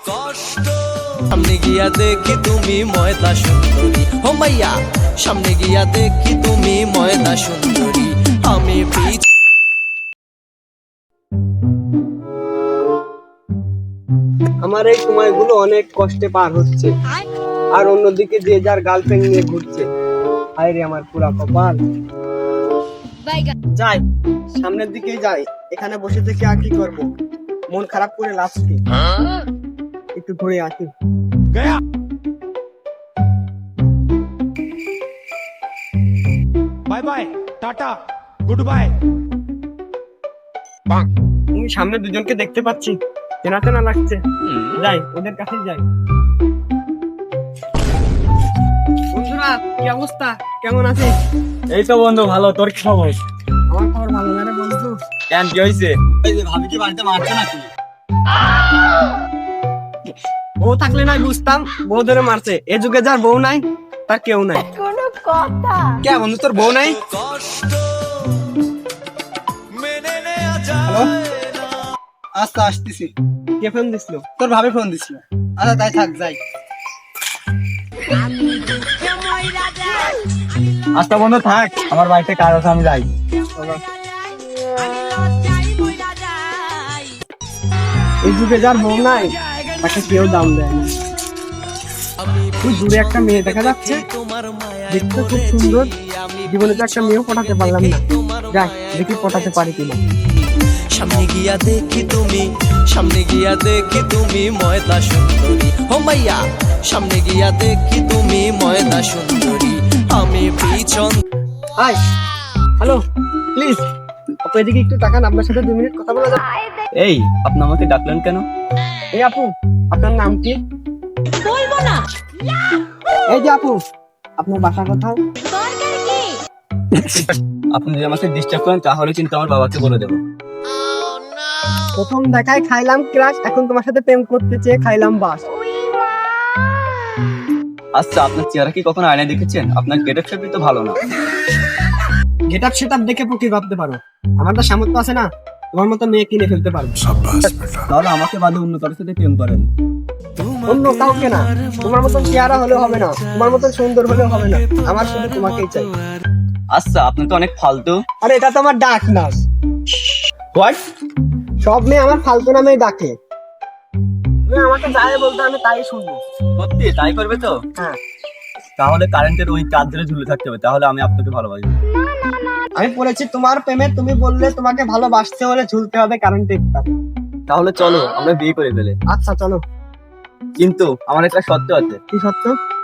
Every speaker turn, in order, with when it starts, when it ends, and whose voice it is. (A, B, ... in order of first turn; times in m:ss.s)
0:00.2-0:09.2 A
0:14.6-0:16.9 B
0:17.7-0:19.9 B
0:20.6-0:21.8 B
0:23.2-0:23.5 C
0:23.7-0:24.0 B
0:24.5-0:27.1 B
0:27.7-0:28.8 B
0:30.1-0:30.9 B
0:31.5-0:31.8 D
0:36.9-0:39.0 D
0:41.5-0:44.2 B
0:44.7-0:45.8 B
0:49.1-0:51.2 B
0:51.7-0:53.2 E
0:53.7-0:55.0 B
0:55.3-0:57.7 E
1:00.6-1:04.7 B
1:04.6-1:06.0 C
1:06.0-1:07.0 B
1:07.4-1:07.7 A
1:09.8-1:10.8 A
1:10.8-1:11.1 B
1:12.4-1:13.0 B
1:13.6-1:16.4 B
1:21.0-1:23.1 E
1:23.6-1:23.8 B
1:25.6-1:26.2 A
1:28.2-1:30.9 B
1:32.2-1:51.2 A
1:32.6-1:34.0 B
1:34.9-1:35.9 B
1:36.5-1:40.0 B
1:53.6-1:53.8 B
1:54.4-1:56.4 B
1:57.0-1:58.4 E
1:59.1-2:00.6 B
2:01.4-2:02.1 C
2:03.3-2:03.8 B
2:04.4-2:05.2 B
2:05.4-2:06.4 C
2:06.9-2:10.2 E
2:12.0-2:15.4 B
2:15.5-2:16.8 C
2:18.0-2:21.0 E
2:22.5-2:27.8 B
2:27.8-2:29.7 E
2:30.7-2:35.9 B
2:36.7-2:38.0 E
2:38.2-2:39.4 B
2:40.5-2:40.8 B
2:41.6-2:43.1 B
2:44.5-2:46.2 B
2:46.6-2:47.6 E
2:48.8-2:51.8 E
2:52.8-2:56.9 B
2:57.5-2:59.0 E
2:59.1-2:59.6 B
3:00.6-3:02.0 E
3:02.1-3:02.6 B